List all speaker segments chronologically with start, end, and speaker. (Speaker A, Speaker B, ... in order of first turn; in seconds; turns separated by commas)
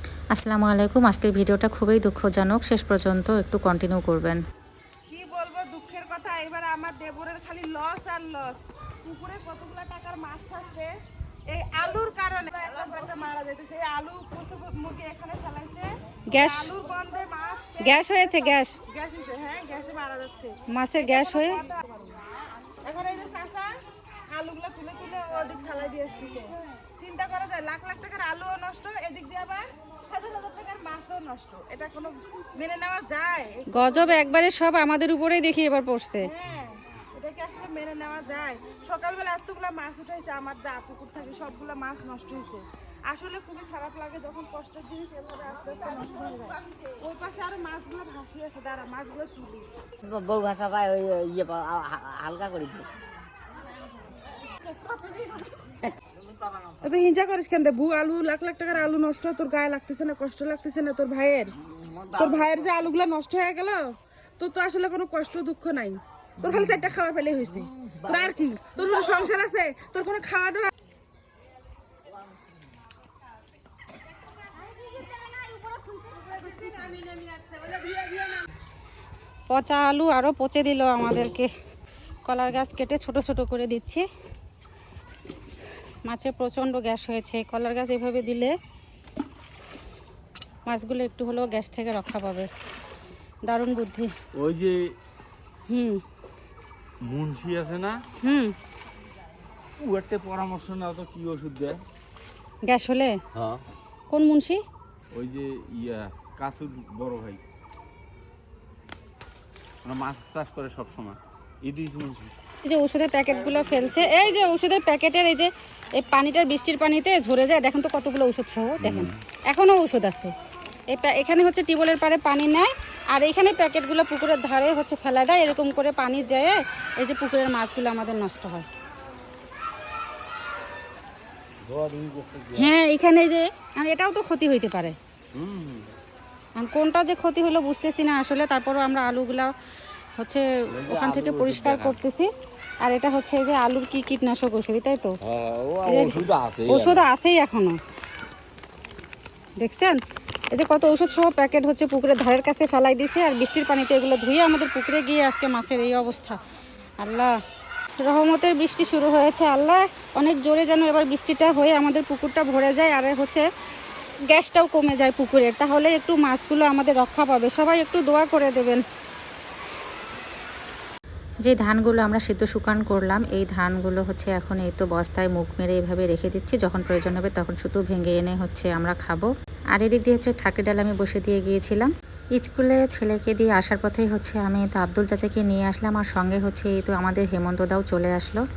Speaker A: 0.3-4.4, Speaker B: 5.1-10.9, Speaker B: 11.5-22.2, Speaker C: 16.3-16.7, Speaker C: 17.8-18.8, Speaker C: 20.7-21.6, Speaker B: 22.8-23.7, Speaker B: 24.3-34.2, Speaker C: 33.7-36.3, Speaker B: 36.2-49.7, Speaker D: 50.0-52.9, Speaker B: 56.8-61.5, Speaker B: 62.1-70.7, Speaker B: 75.9-77.0, Speaker C: 79.5-81.5, Speaker C: 82.2-84.1, Speaker C: 86.0-88.5, Speaker C: 90.7-92.5, Speaker C: 93.5-94.1, Speaker E: 94.3-95.0, Speaker C: 95.7-96.0, Speaker E: 97.0-98.0, Speaker C: 98.2-98.5, Speaker E: 99.8-101.8, Speaker C: 102.6-103.2, Speaker E: 103.3-103.6, Speaker C: 104.1-104.6, Speaker E: 105.1-107.4, Speaker E: 109.8-112.3, Speaker C: 112.6-120.3, Speaker E: 118.8-119.2, Speaker C: 120.9-128.7, Speaker E: 131.7-132.7, Speaker C: 132.5-135.0, Speaker E: 135.3-135.9, Speaker C: 136.6-139.5, Speaker C: 140.2-142.3, Speaker E: 140.7-142.0, Speaker C: 142.8-145.2, Speaker E: 145.2-147.1, Speaker C: 145.8-147.8, Speaker C: 149.6-150.0, Speaker C: 150.5-156.4, Speaker C: 157.0-157.3, Speaker C: 158.0-163.5, Speaker C: 164.3-168.8, Speaker A: 171.4-188.4